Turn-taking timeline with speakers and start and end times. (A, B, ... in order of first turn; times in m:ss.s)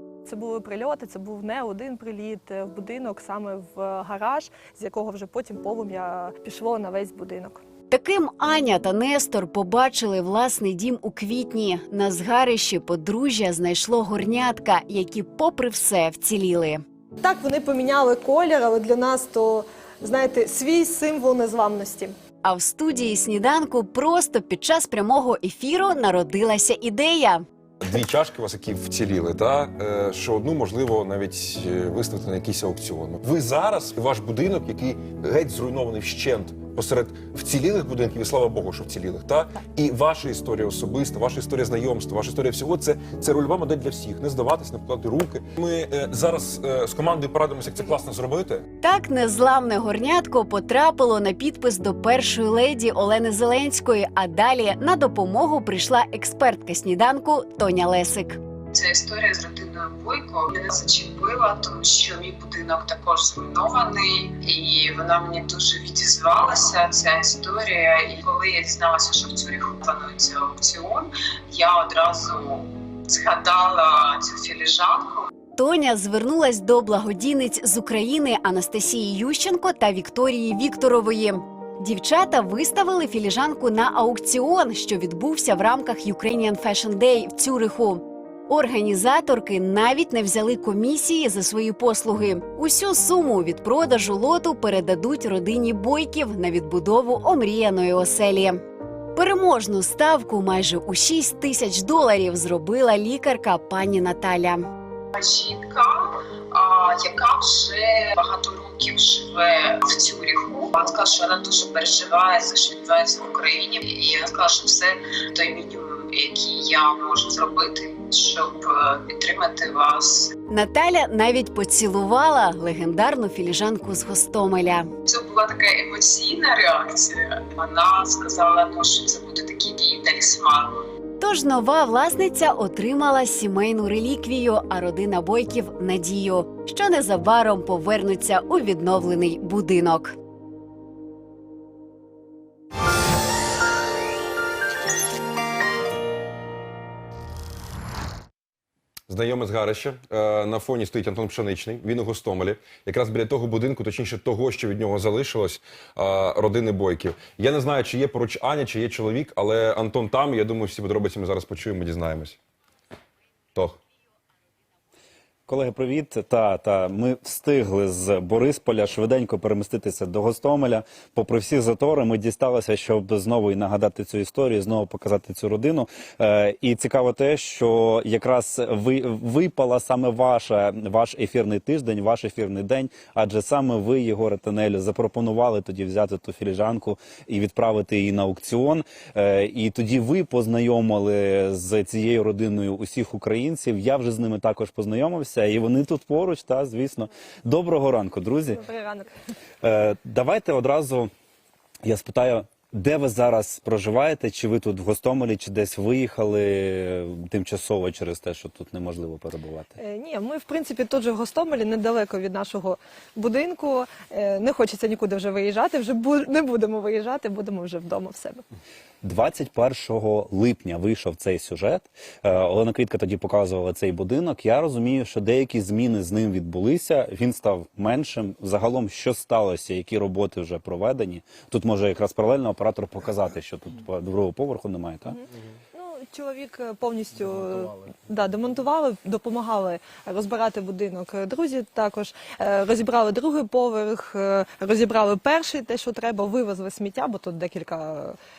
0:00.2-0:07.6 A
0:07.9-0:16.8 B
0:17.2-0:22.2 A
0:22.4-0:27.4 B
0:27.8-0:48.7 C
0:48.8-0:58.4 B
0:58.7-1:15.3 D
1:15.6-1:38.6 B
1:39.2-1:44.7 B
1:45.1-2:00.3 D
2:00.5-2:04.9 B
2:05.0-2:10.9 D
2:11.2-2:20.2 B
2:29.1-2:42.4 C
2:45.5-3:18.6 E
3:18.6-3:19.1 A
3:19.6-3:21.1 E
3:21.8-3:29.8 E
3:29.8-3:38.4 A
3:39.0-3:55.2 E
3:55.7-4:08.2 A